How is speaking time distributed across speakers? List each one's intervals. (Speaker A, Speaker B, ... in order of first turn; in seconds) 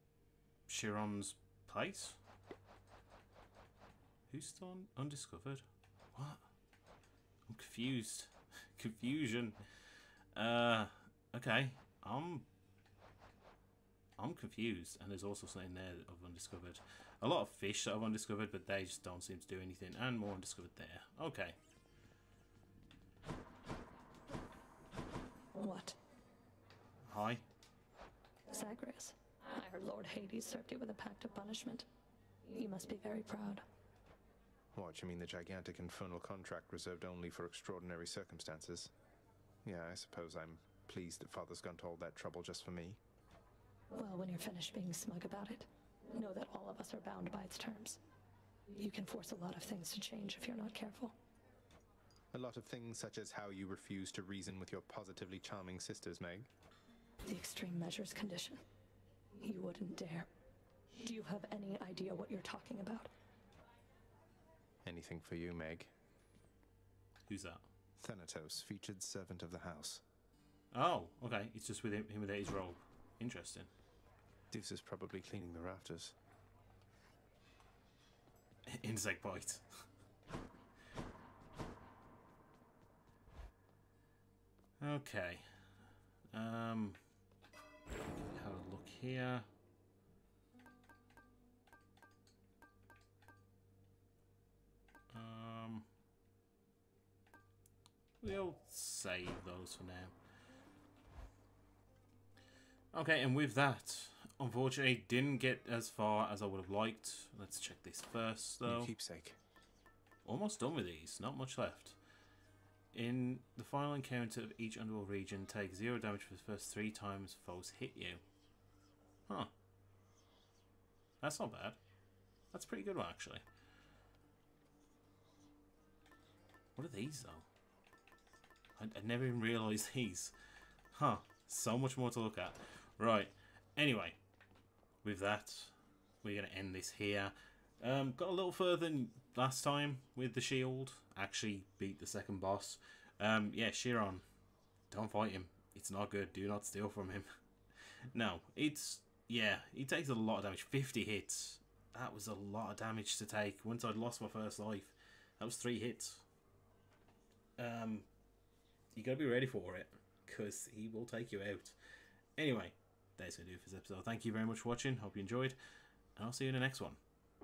Speaker A: 0.7-2.2, 4.3-5.6, 6.1-6.4, 7.5-9.6, 10.3-12.4, 14.2-21.6, 27.1-27.4, 67.3-67.7, 70.7-73.7, 78.7-79.6, 84.8-85.5, 86.3-87.0, 88.0-89.5, 95.1-95.9, 98.2-100.1, 102.9-108.9, 110.2-112.0, 112.9-118.2, 121.2-121.8, 122.5-123.4, 126.8-127.5, 128.8-130.3, 130.9-134.2, 135.0-144.2, 144.9-147.3, 148.1-156.2, 157.6-158.1, 158.9-161.8, 162.4-165.6, 166.2-167.0
Speaker B: 25.6-26.0, 28.5-31.9, 32.5-33.6, 43.9-48.0, 48.8-51.1, 57.2-58.6, 59.4-60.3, 61.0-63.1
Speaker C: 34.7-38.9, 39.6-43.0, 52.3-56.5, 64.8-65.9, 68.0-70.0, 74.5-76.2, 108.6-109.4